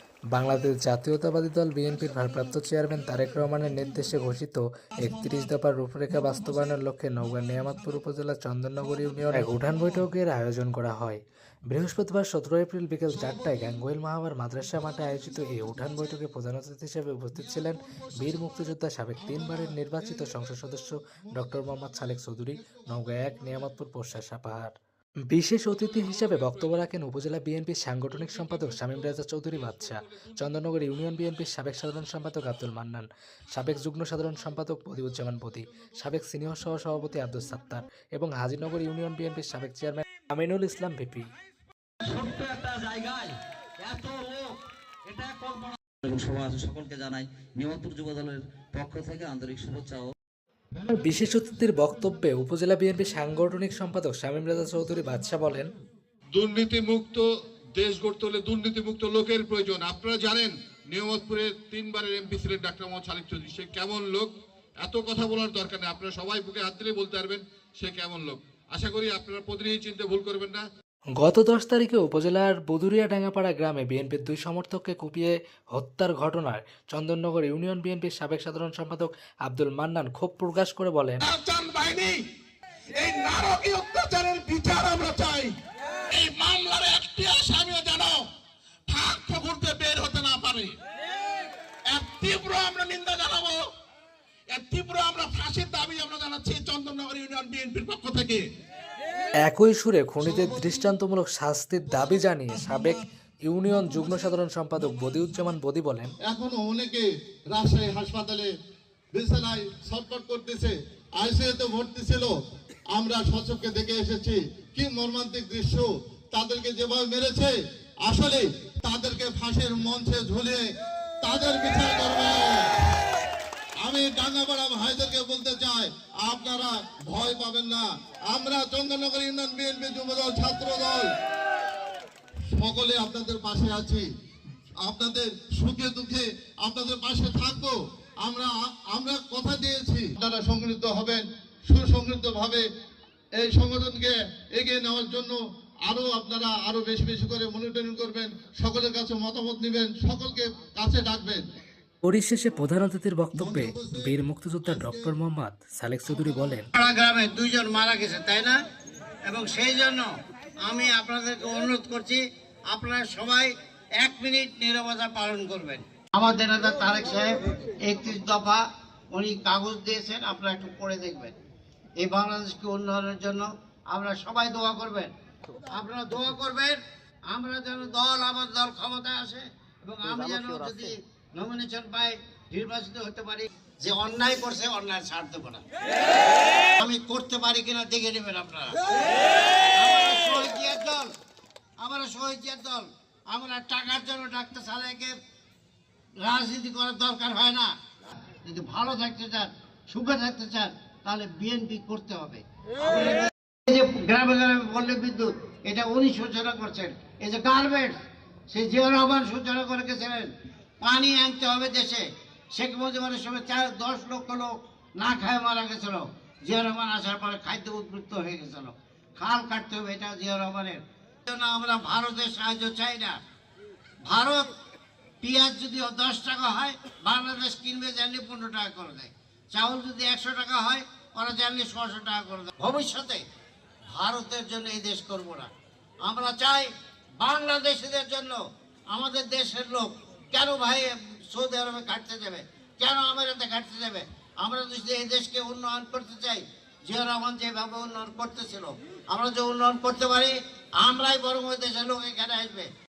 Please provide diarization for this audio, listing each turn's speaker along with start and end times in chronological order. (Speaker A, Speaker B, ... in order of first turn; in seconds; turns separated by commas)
Speaker A: 0.3-24.7, Speaker A: 25.3-41.3, Speaker B: 25.9-26.8, Speaker B: 28.5-28.9, Speaker B: 29.4-29.9, Speaker C: 42.0-44.5, Speaker C: 45.0-50.1, Speaker A: 50.8-55.7, Speaker B: 56.3-57.2, Speaker B: 57.8-64.3, Speaker B: 64.8-70.6, Speaker A: 71.2-81.2, Speaker D: 81.2-82.2, Speaker D: 83.0-85.5, Speaker D: 86.1-88.2, Speaker D: 88.9-90.8, Speaker D: 91.9-93.7, Speaker D: 94.5-98.5, Speaker A: 99.4-106.1, Speaker E: 106.2-108.5, Speaker E: 109.1-112.3, Speaker E: 112.9-120.7, Speaker E: 121.2-122.7, Speaker E: 123.8-131.1, Speaker E: 132.5-134.1, Speaker E: 134.8-142.7, Speaker E: 143.4-151.4, Speaker A: 152.0-156.7, Speaker E: 153.3-155.1, Speaker F: 156.7-158.6, Speaker F: 159.3-160.1, Speaker F: 160.6-171.3, Speaker F: 172.0-175.1, Speaker F: 175.7-176.8, Speaker F: 177.3-185.6, Speaker F: 186.8-189.0, Speaker F: 189.7-191.1, Speaker F: 191.8-195.1, Speaker F: 196.2-197.7, Speaker F: 198.4-207.9, Speaker F: 208.5-210.3, Speaker F: 210.8-223.2, Speaker F: 224.1-224.5, Speaker F: 225.2-233.2, Speaker F: 233.9-235.5, Speaker F: 236.0-236.7, Speaker F: 237.2-252.7